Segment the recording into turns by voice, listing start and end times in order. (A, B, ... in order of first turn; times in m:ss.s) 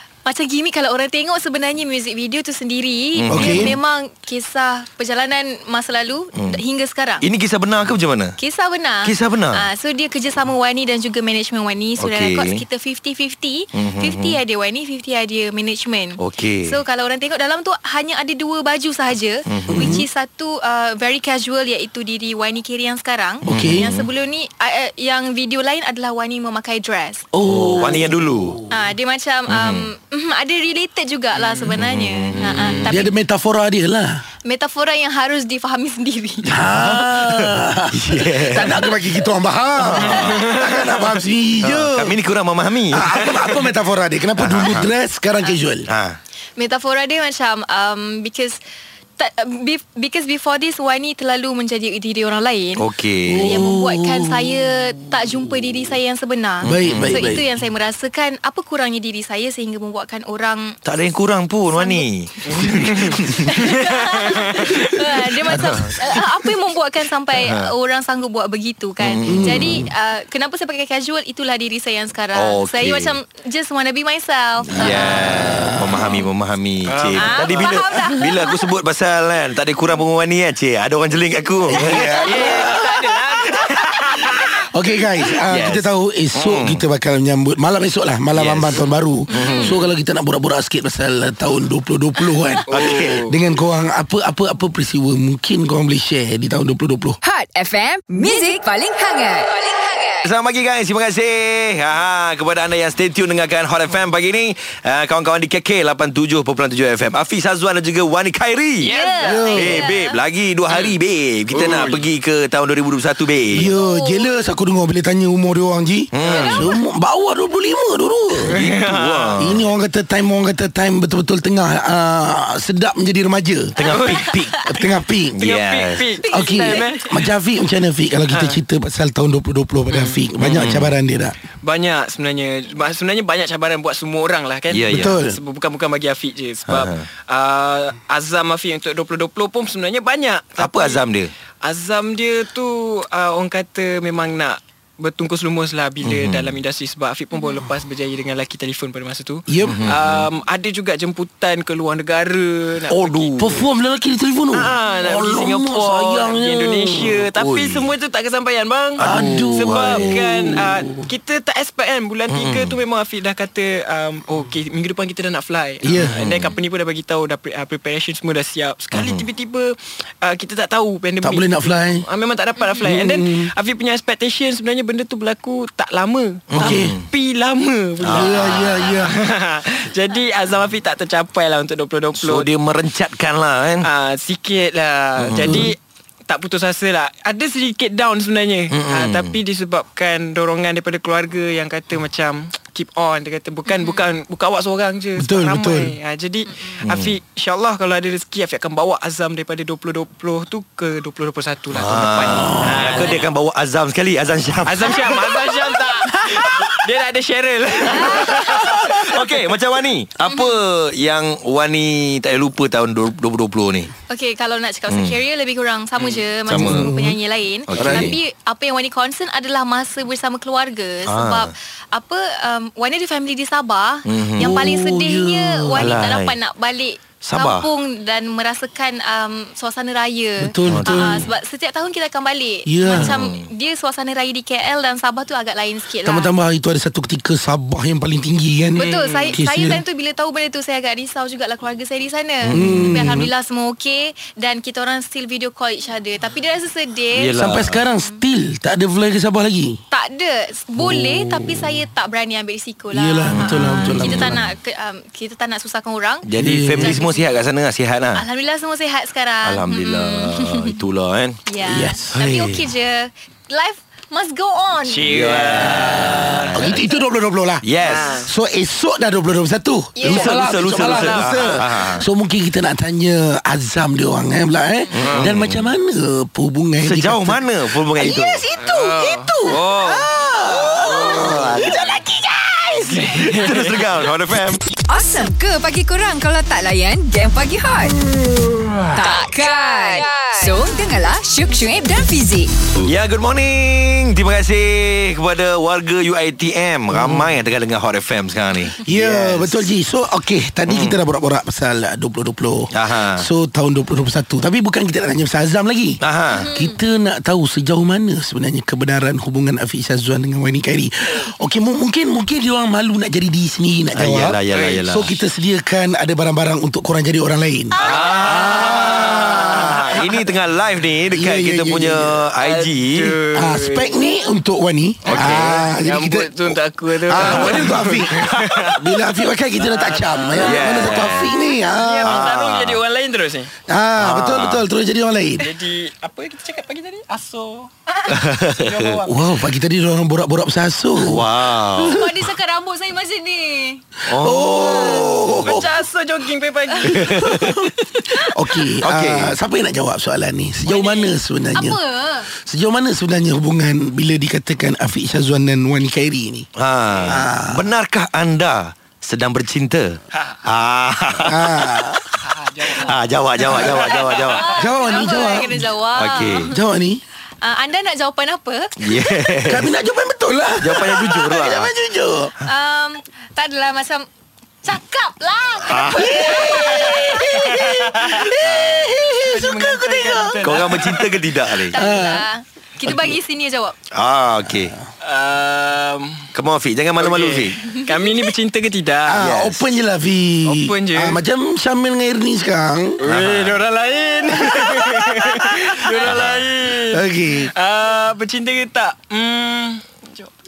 0:00.2-0:07.2 A
0:03.2-0:03.8 B
0:03.3-0:03.8 C
0:06.3-0:06.6 B
0:07.2-0:08.4 B
0:08.4-0:27.3 A
0:09.0-0:09.6 B
0:12.0-0:12.6 B
0:13.7-0:14.4 B
0:16.2-0:16.8 B
0:19.5-0:19.9 B
0:19.7-0:20.0 C
0:23.4-0:23.9 C
0:23.5-0:24.1 B
0:27.3-0:28.6 C
0:27.4-0:28.6 B
0:28.6-0:33.1 A
0:29.5-0:29.9 B
0:31.3-0:31.8 D
0:31.8-0:33.0 B
0:32.8-0:34.2 C
0:34.4-0:36.7 A
0:36.4-0:42.2 C
0:36.8-0:38.8 B
0:39.8-0:40.4 B
0:39.9-0:41.2 D
0:41.6-0:43.6 B
0:42.9-0:45.9 C
0:44.4-0:44.9 B
0:45.8-0:46.2 B
0:46.6-0:48.6 A
0:49.2-0:52.9 A
0:52.7-0:53.6 B
0:53.2-0:54.7 C
0:53.4-1:00.8 A
0:56.6-0:57.4 B
0:56.6-0:57.5 C
1:00.8-1:03.5 B
1:01.7-1:02.7 A
1:02.4-1:05.4 D
1:03.4-1:16.2 A
1:05.5-1:05.8 C
1:07.3-1:07.7 B
1:09.1-1:09.5 B
1:09.2-1:09.9 C
1:12.3-1:13.2 B
1:14.6-1:16.2 C
1:14.8-1:22.1 B
1:16.9-1:18.2 D
1:17.1-1:18.7 A
1:21.7-1:23.2 C
1:21.7-1:24.6 D
1:22.1-1:22.7 A
1:24.6-1:37.2 C
1:25.5-1:26.8 B
1:28.3-1:29.7 B
1:29.3-1:29.8 A
1:29.5-1:29.8 D
1:32.7-1:33.2 B
1:32.7-1:33.4 D
1:37.2-1:40.3 E
1:40.2-1:49.0 B
1:48.8-1:49.6 D
1:48.8-1:50.2 A
1:49.2-1:49.9 C
1:49.5-1:53.7 B
1:50.7-1:51.0 D
1:51.5-1:52.1 D
1:53.5-1:58.6 C
1:53.6-1:54.4 A
1:56.1-1:56.5 B
1:56.2-1:56.8 D
1:56.3-1:56.7 A
1:58.4-1:59.6 D
1:58.5-1:59.6 B
1:59.4-2:03.8 C
2:03.8-2:04.5 B
2:03.8-2:04.6 D
2:04.1-2:04.8 A
2:04.5-2:05.4 C
2:05.3-2:06.0 B
2:05.4-2:07.3 D
2:06.2-2:06.9 A
2:06.3-2:11.4 C
2:08.3-2:08.6 D
2:09.9-2:10.4 D
2:10.4-2:11.0 B
2:11.5-2:21.0 D
2:14.7-2:15.1 B
2:14.9-2:15.4 C
2:16.7-2:17.1 B
2:20.6-2:21.3 B
2:21.6-2:33.6 D
2:26.0-2:26.6 B
2:29.5-2:29.8 C
2:29.6-2:30.3 B
2:33.3-2:37.2 C
2:34.5-3:02.5 D
2:37.3-2:37.9 B
2:39.0-2:41.0 C
2:39.0-2:39.6 B
2:42.3-2:42.8 B
2:45.8-2:46.2 C
2:46.1-2:46.5 B
2:48.9-2:49.2 B
2:51.2-2:52.0 C
2:52.8-2:53.5 C
2:56.5-2:57.0 B
2:56.5-2:57.0 C
2:58.0-2:58.7 B
2:58.1-2:59.2 C
3:02.2-3:03.9 B
3:03.8-3:23.2 D
3:05.2-3:05.7 B
3:05.4-3:05.7 C
3:08.7-3:09.4 B
3:13.7-3:14.0 A
3:15.2-3:16.0 C
3:16.5-3:16.8 A
3:16.8-3:17.2 B
3:21.7-3:25.3 B
3:22.3-3:22.9 C
3:22.5-3:23.2 A
3:24.6-3:29.5 D
3:24.8-3:25.6 A
3:26.4-3:26.6 B
3:27.9-3:28.6 A
3:28.4-3:33.9 B
3:30.2-3:30.6 A
3:34.1-3:56.3 A
3:34.9-3:35.2 B
3:36.0-3:36.2 D
3:36.5-3:37.2 C
3:36.5-3:36.9 B
3:37.7-3:38.2 B
3:37.7-3:38.1 C
3:41.0-3:41.5 B
3:44.0-3:44.6 B
3:44.4-3:46.1 C
3:45.8-3:46.4 B
3:47.1-3:47.7 B
3:50.4-3:51.3 C
3:50.6-3:51.1 B
3:52.6-3:53.2 C
3:52.8-3:53.1 D
3:53.2-3:53.5 B
3:56.0-3:59.8 C
3:58.7-4:08.2 A
3:58.8-3:59.4 D
4:02.4-4:03.0 B
4:02.5-4:03.3 C
4:07.1-4:07.8 B
4:07.4-4:09.8 C
4:09.9-4:17.3 A
4:10.8-4:11.8 C
4:12.9-4:14.5 C
4:13.3-4:14.3 B
4:16.2-4:18.2 B
4:16.3-4:17.0 C
4:18.1-4:20.8 A
4:19.4-4:21.4 B
4:21.4-4:25.1 A
4:21.6-4:22.2 C
4:22.1-4:22.7 B
4:24.8-4:26.8 D
4:25.0-4:26.8 B
4:26.0-4:27.6 C
4:27.6-4:28.1 B
4:27.8-4:28.3 D
4:28.2-4:37.4 C
4:30.0-4:31.4 A
4:30.0-4:32.0 B
4:30.1-4:31.8 D
4:34.9-4:35.7 B
4:35.0-4:35.3 D
4:36.8-4:38.4 B
4:38.0-4:39.0 C
4:38.5-4:39.6 A
4:38.6-4:40.1 D
4:39.8-4:42.7 C
4:40.7-4:41.3 D
4:41.2-4:42.0 B
4:42.8-4:43.8 D
4:43.1-4:44.7 B
4:44.8-4:48.0 E
4:48.9-4:52.5 E
4:52.8-4:59.6 B
4:56.9-4:57.3 C
4:58.8-5:19.8 C
5:00.7-5:01.0 B
5:02.7-5:03.3 B
5:06.0-5:06.5 B
5:06.3-5:06.8 A
5:13.9-5:15.1 B
5:14.5-5:14.9 D
5:17.7-5:19.1 A
5:17.8-5:20.3 D
5:17.9-5:23.2 B
5:21.1-5:22.2 C
5:22.4-5:24.0 D
5:23.3-5:32.3 C
5:25.1-5:25.7 B
5:25.1-5:28.7 D
5:29.6-5:33.5 D
5:30.4-5:31.3 B
5:32.0-5:32.8 B
5:33.7-5:35.5 C
5:34.0-5:34.7 B
5:35.4-5:39.4 D
5:38.1-5:39.0 B
5:39.0-5:41.3 C
5:41.0-5:42.0 B
5:41.7-5:43.9 A
5:44.0-5:45.6 B
5:44.1-5:45.7 C
5:44.7-5:45.1 A
5:45.4-5:48.0 D
5:46.7-5:47.0 A
5:46.9-5:47.6 B
5:47.2-5:56.5 C
5:48.8-5:49.4 B
5:50.6-5:51.1 D
5:51.5-5:52.3 A
5:56.6-6:01.9 B
5:57.0-5:57.7 C
6:01.2-6:02.0 C
6:02.2-6:05.1 D
6:02.8-6:04.5 B
6:04.3-6:06.6 A
6:04.6-6:05.7 C
6:05.9-6:06.5 B
6:06.3-6:07.0 C
6:07.4-6:09.3 A
6:08.8-6:09.7 B
6:09.4-6:12.3 C
6:10.6-6:11.7 B
6:12.4-6:14.0 A
6:14.6-6:17.5 A
6:15.7-6:16.2 B
6:15.9-6:20.8 C
6:16.4-6:21.1 D
6:20.4-6:21.8 B
6:21.5-6:22.2 C
6:21.5-6:23.8 A
6:22.8-6:23.2 C
6:23.9-6:24.8 B
6:25.0-6:26.3 D
6:26.3-6:27.6 B
6:27.0-6:29.2 D
6:27.6-6:28.2 A
6:29.1-6:33.0 C
6:29.2-6:29.7 B
6:30.4-6:31.2 D
6:33.0-6:40.3 D
6:33.1-6:33.6 B
6:34.5-6:34.9 C
6:35.6-6:36.1 A
6:36.0-6:36.5 B
6:36.9-6:37.5 C